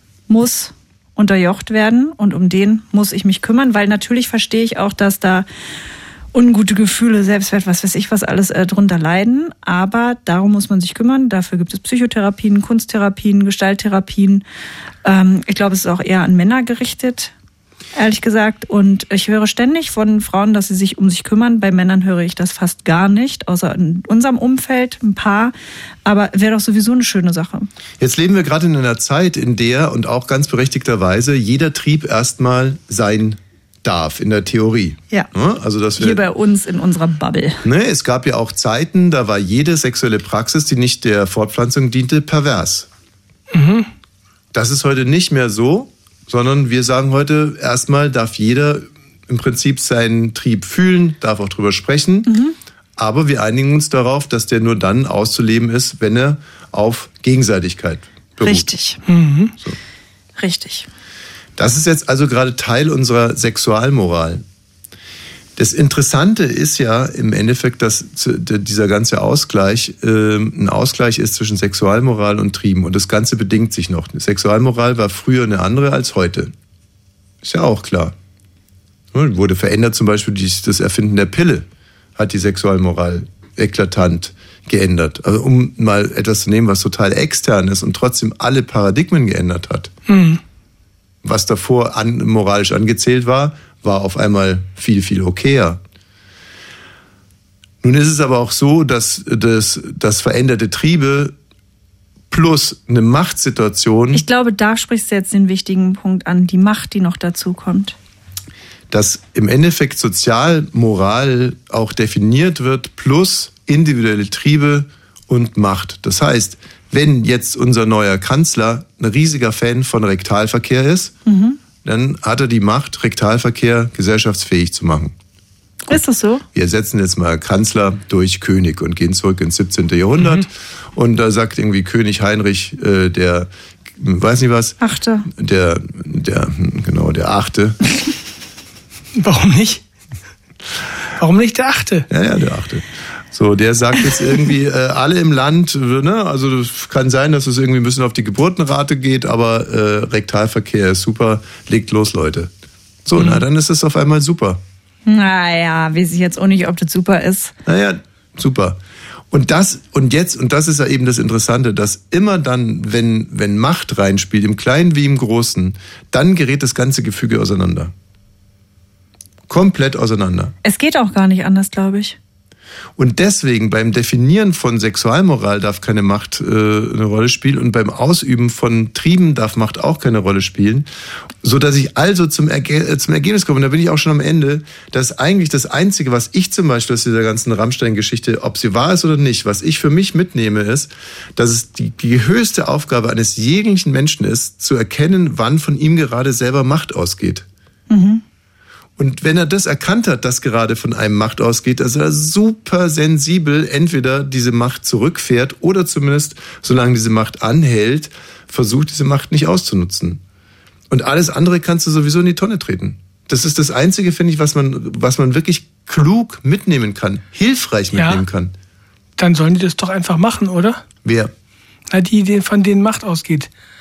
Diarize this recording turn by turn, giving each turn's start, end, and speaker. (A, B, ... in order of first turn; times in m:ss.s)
0:00.3-0:05.5 A
0:06.3-0:14.4 A
0:15.0-0:17.3 A
0:18.0-0:25.5 A
0:26.0-0:27.7 A
0:28.0-0:36.2 B
0:36.0-0:37.6 A
0:37.6-0:42.9 B
0:43.5-0:43.9 C
0:44.5-0:52.3 B
0:52.3-0:52.6 A
0:53.0-0:58.7 B
0:58.4-0:59.0 A
0:59.1-0:59.5 C
1:00.4-1:00.9 A
1:01.6-1:04.4 B
1:05.6-1:16.5 B
1:17.4-1:18.2 B
1:19.1-1:29.9 B
1:30.1-1:30.4 C
1:31.2-1:35.8 B
1:37.8-1:41.4 B
1:42.3-1:44.2 B
1:44.1-1:48.0 A
1:48.9-2:01.1 B
2:01.3-2:01.6 A
2:01.8-2:05.1 B
2:05.9-2:06.4 A
2:06.5-2:17.8 B
2:14.8-2:15.3 A
2:19.2-2:19.8 C
2:21.2-2:22.1 C
2:22.1-2:32.5 B
2:33.0-2:34.6 B
2:33.2-2:33.4 C
2:35.1-2:37.5 A
2:37.6-2:38.8 B
2:39.3-2:47.9 B
2:49.5-2:50.5 B
2:50.6-2:52.2 A
2:53.0-3:00.9 B
3:01.4-3:17.5 B
3:17.9-3:18.2 A
3:19.0-3:30.2 B
3:30.9-3:38.5 B
3:38.0-3:38.2 C
3:39.2-3:40.8 C
3:41.0-3:41.3 B
3:41.9-3:43.5 C